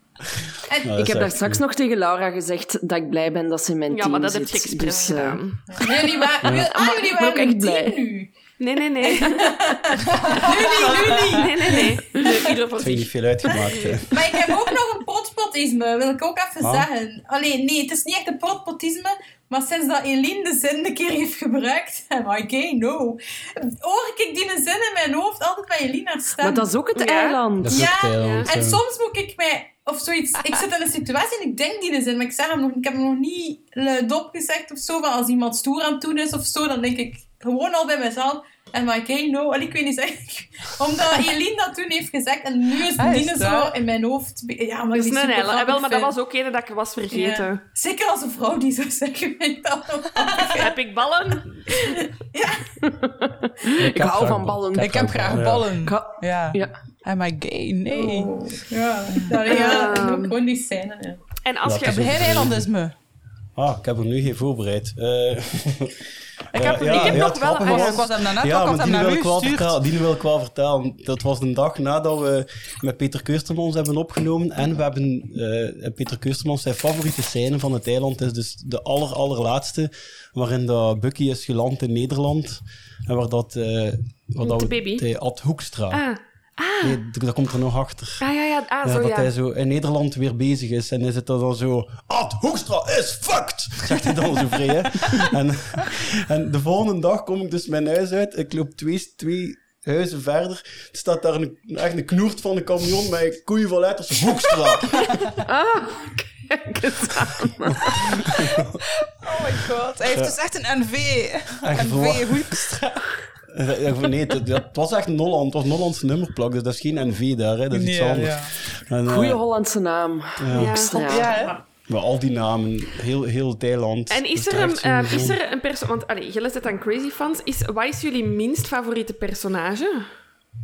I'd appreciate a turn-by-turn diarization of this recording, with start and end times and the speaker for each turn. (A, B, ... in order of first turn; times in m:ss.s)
0:00.8-0:01.6 A
0:01.0-0:05.4 B
0:03.9-0:06.3 C
0:05.8-0:08.3 D
0:06.5-0:08.0 B
0:08.6-0:09.6 C
0:09.0-0:12.5 D
0:10.0-0:11.8 E
0:10.4-0:13.8 C
0:12.8-0:14.2 A
0:14.1-0:26.7 D
0:16.6-0:16.9 A
0:26.4-0:28.0 B
0:27.0-0:27.4 C
0:27.6-0:28.8 A
0:27.7-0:46.1 D
0:28.2-0:28.5 C
0:43.0-0:43.7 E
0:44.9-0:47.6 C
0:47.1-0:50.8 D
0:50.5-0:51.9 C
0:51.7-0:52.9 D
0:52.8-0:55.2 B
0:53.8-0:55.7 A
0:54.8-0:58.3 E
0:55.8-0:56.8 B
0:57.9-1:01.2 D
0:59.2-1:00.0 E
0:59.5-1:00.4 C
1:01.4-1:02.3 C
1:01.6-1:02.7 A
1:01.8-1:03.0 E
1:03.6-1:26.0 A
1:06.5-1:09.8 E
1:06.6-1:08.1 C
1:24.4-1:25.0 C
1:25.9-1:27.0 C
1:26.8-1:28.2 A
1:28.2-1:29.3 C
1:28.8-1:45.2 A
1:45.4-1:48.2 B
1:47.7-1:48.8 A
1:49.1-1:53.2 E
1:50.1-1:50.4 A
1:51.6-1:52.6 A
1:53.5-1:59.4 A
1:57.7-1:58.6 E
1:59.0-2:01.3 B
2:00.4-2:00.9 A
2:00.5-2:01.3 C
2:01.1-2:01.6 E
2:01.2-2:01.6 D
2:01.9-2:05.4 A
2:04.1-2:10.1 C